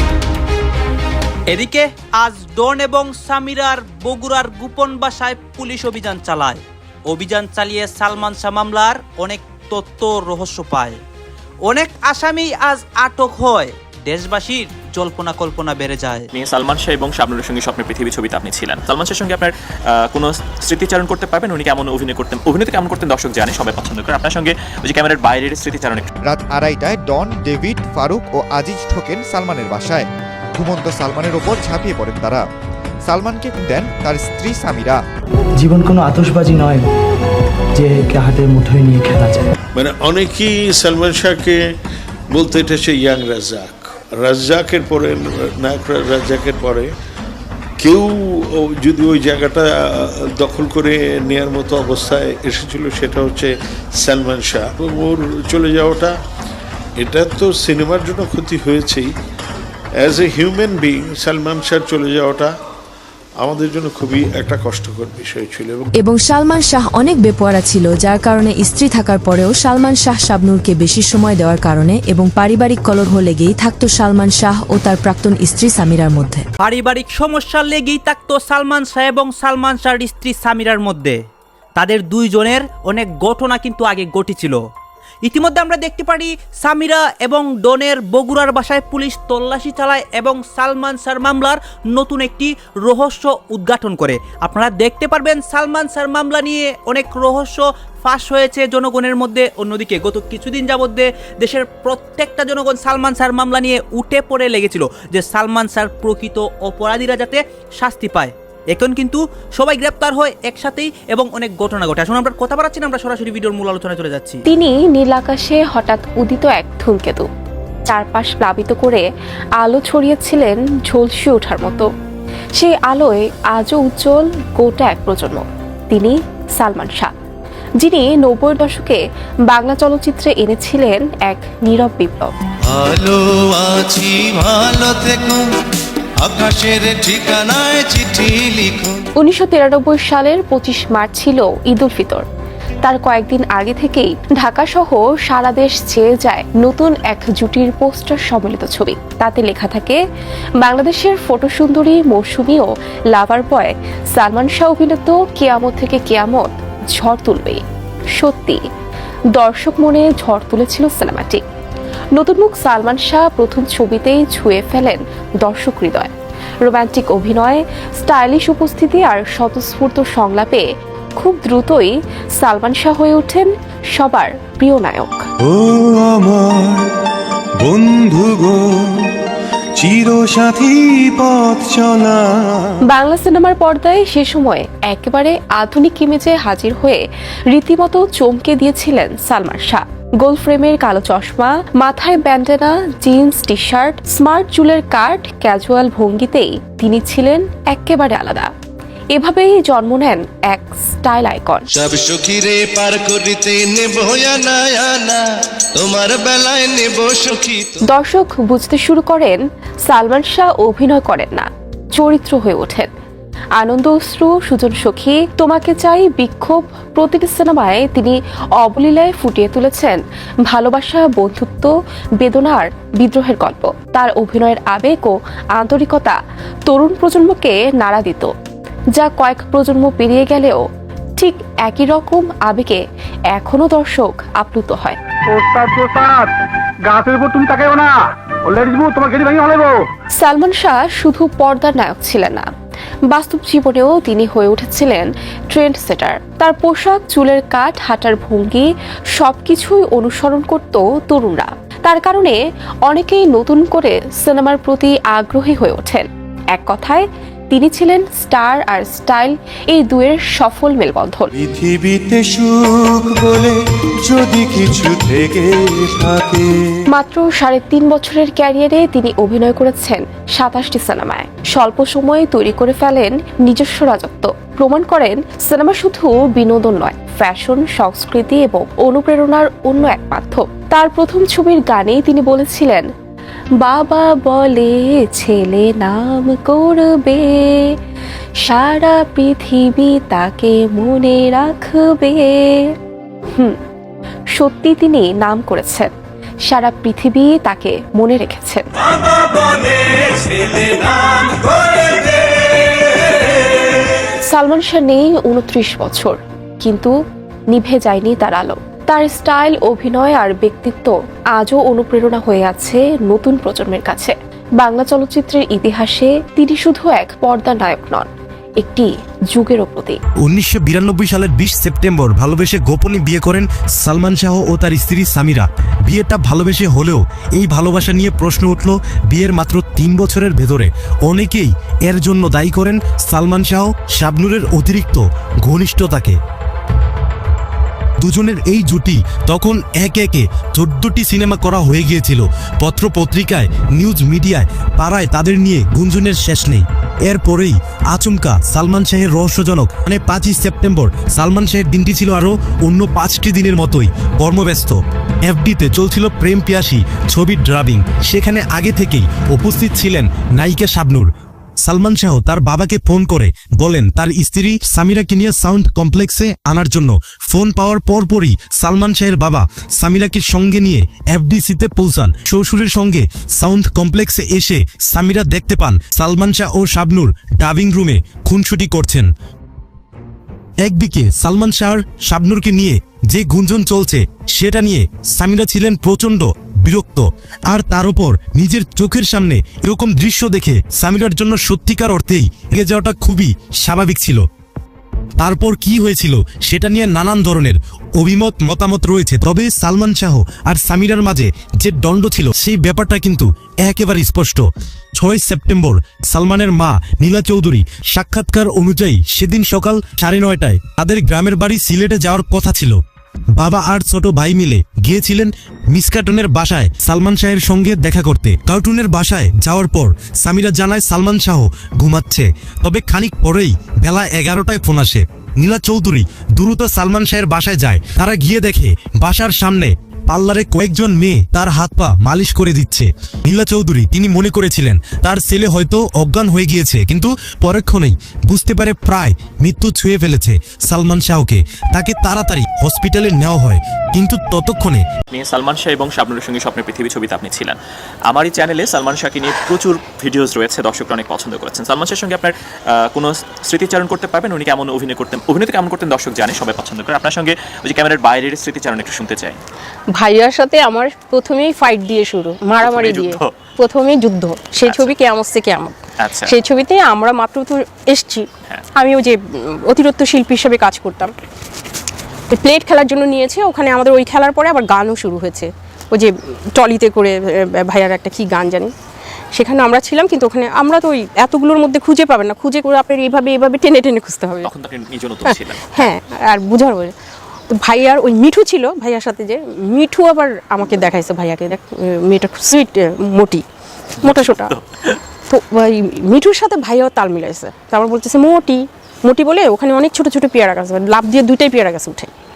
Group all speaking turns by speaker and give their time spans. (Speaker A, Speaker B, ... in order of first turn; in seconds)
Speaker A: 1.5-11.0, 11.6-16.3, 76.6-81.2, 81.8-84.6, 85.2-114.4
Speaker B: 16.3-19.5, 20.1-26.1, 445.1-447.6, 448.1-452.3, 452.9-459.4, 462.6-463.3, 464.6-464.9, 466.0-466.3, 484.4-485.9, 494.0-494.9
Speaker C: 26.2-30.1, 30.6-32.4, 33.1-35.0
Speaker D: 35.6-36.8, 37.8-39.5
Speaker E: 39.8-41.6, 42.3-46.9, 47.8-56.1, 57.0-59.1, 60.0-62.5, 63.4-65.9
Speaker F: 65.9-76.5
Speaker G: 114.5-117.3, 117.9-119.0, 119.6-121.9, 122.6-127.1, 127.8-132.3, 139.2-142.2, 142.8-150.0, 150.6-157.6, 158.2-158.6, 159.3-161.4, 162.2-166.1, 166.6-170.7, 171.2-175.2, 182.9-187.0, 187.5-198.5, 199.2-201.7, 207.9-212.9, 213.6-226.2, 226.7-228.3, 229.0-230.6, 231.2-232.8, 233.3-235.0, 240.2-242.5, 243.1-248.7, 249.2-252.3, 252.9-261.3, 266.9-282.9, 283.6-287.7, 288.4-292.7, 294.4-295.9, 296.5-298.9, 304.3-306.9, 307.5-318.1, 318.6-320.0
Speaker H: 132.7-135.4, 136.2-139.0, 201.7-205.2, 205.8-207.8
Speaker I: 235.3-236.3, 236.8-239.8
Speaker J: 320.2-336.2, 338.0-361.1, 361.6-379.1, 380.6-394.2, 395.2-404.4, 405.0-412.8, 413.4-444.8
Speaker K: 459.9-463.0, 463.6-465.7, 466.3-468.2, 468.8-469.2, 469.7-471.1, 472.3-478.7, 479.3-484.4, 485.9-486.9, 487.6-493.4, 495.3-502.1